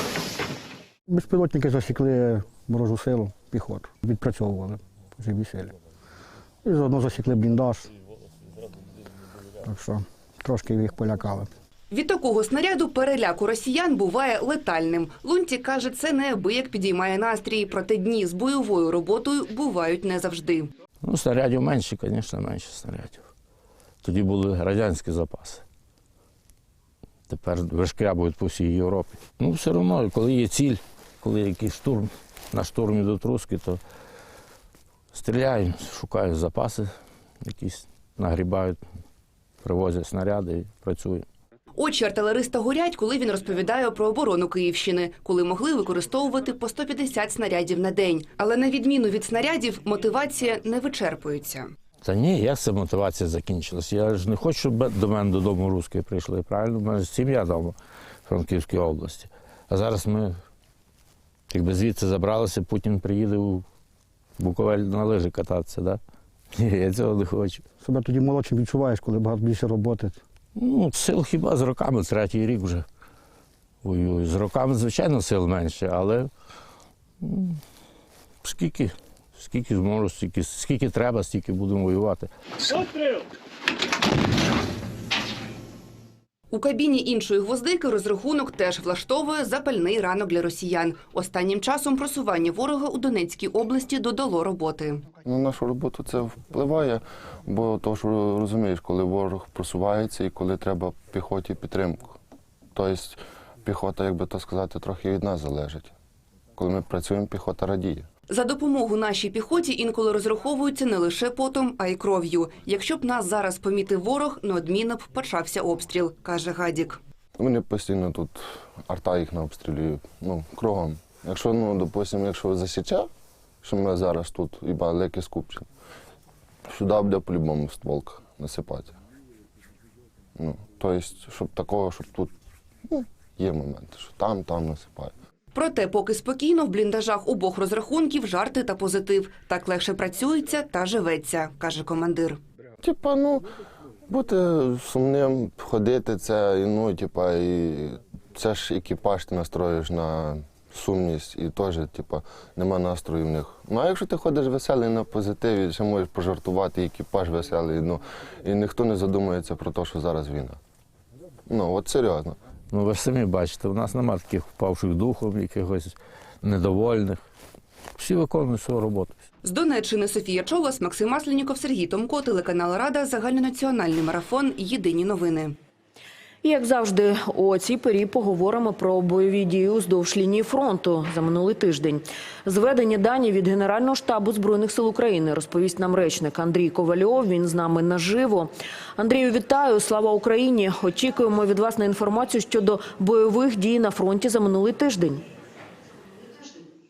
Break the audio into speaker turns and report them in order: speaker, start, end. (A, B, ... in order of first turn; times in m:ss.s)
0:01.1-0:05.7 A
0:06.6-0:07.9 A
0:09.6-0:11.5 A
0:11.9-0:20.7 B
0:21.0-0:23.3 C
0:24.0-0:25.6 C
0:27.3-0:33.8 C
0:35.1-0:36.9 C
0:37.4-0:38.8 C
0:39.6-0:41.3 C
0:41.8-0:51.7 B
0:52.0-1:00.4 C
1:01.5-1:03.6 C
1:04.4-1:06.0 C
1:06.5-1:07.6 C
1:07.8-1:10.2 A
1:10.6-1:12.9 C
1:13.8-1:16.3 C
1:17.2-1:17.6 C
1:18.4-1:22.3 C
1:26.5-1:35.1 B
1:35.2-1:42.2 D
1:42.7-1:45.9 D
1:46.6-1:48.1 D
1:48.3-1:57.0 B
1:57.4-2:03.1 D
2:03.6-2:05.7 D
2:06.7-2:09.0 D
2:10.4-2:12.3 D
2:12.9-2:15.1 D
2:15.6-2:22.4 B
2:22.8-2:23.5 D
2:24.1-2:40.6 D
2:41.5-2:42.4 D
2:42.7-2:47.2 C
2:48.0-2:49.2 C
2:49.4-2:55.6 B
2:56.4-3:15.2 E